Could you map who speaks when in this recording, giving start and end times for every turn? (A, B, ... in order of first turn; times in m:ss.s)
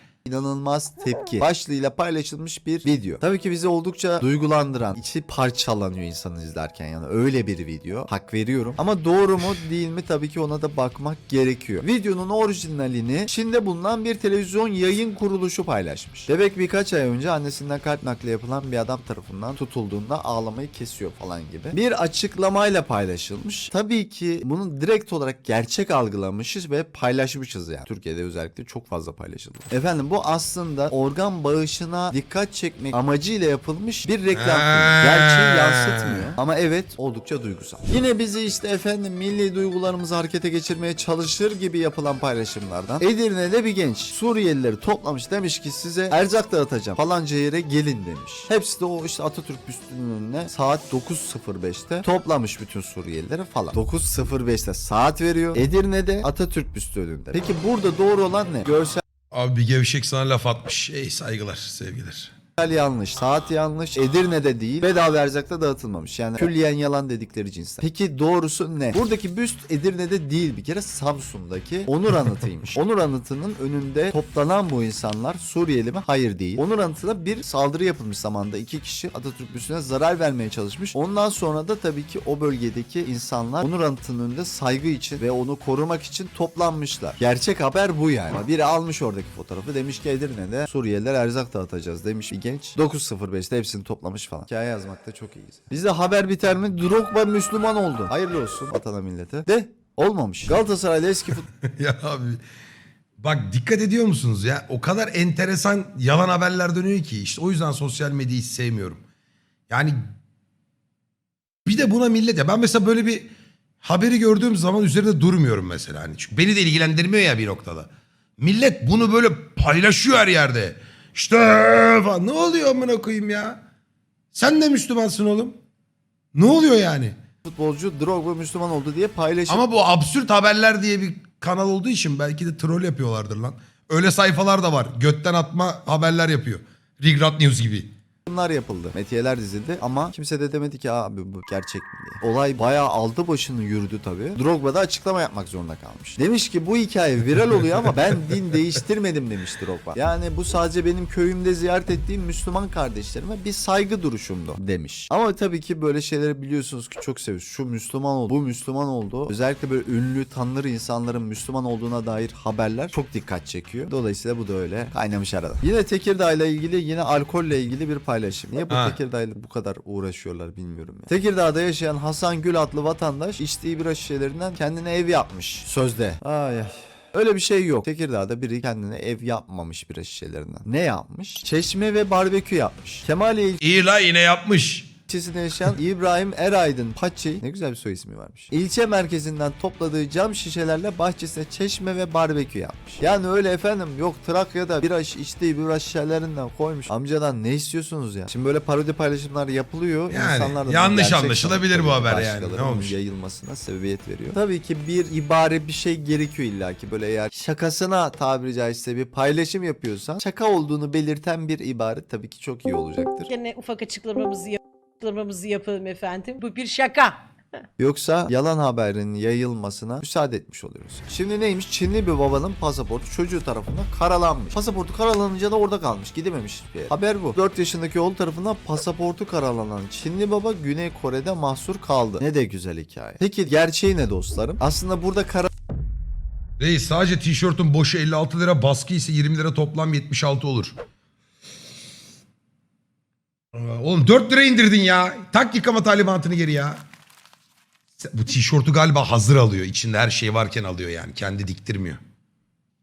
0:00.2-0:59.0 A
0:34.3-0:36.3 B
0:59.3-1:02.3 B
1:02.6-1:41.4 A
1:41.4-1:42.4 B
1:43.2-1:49.0 B
1:49.7-1:50.0 B
1:51.6-1:53.3 B
1:53.8-2:03.6 B
2:04.3-2:05.6 B
2:06.3-2:07.1 B
2:07.4-2:09.6 A
2:09.5-2:17.9 B
2:18.2-3:03.6 A
2:48.7-2:49.0 B
3:03.6-3:04.9 B
3:05.1-3:33.3 A
3:20.1-3:23.0 B
3:33.3-3:37.2 C
3:37.8-3:55.5 A
3:56.6-4:00.8 B
4:03.5-4:06.8 B
4:08.0-4:12.0 B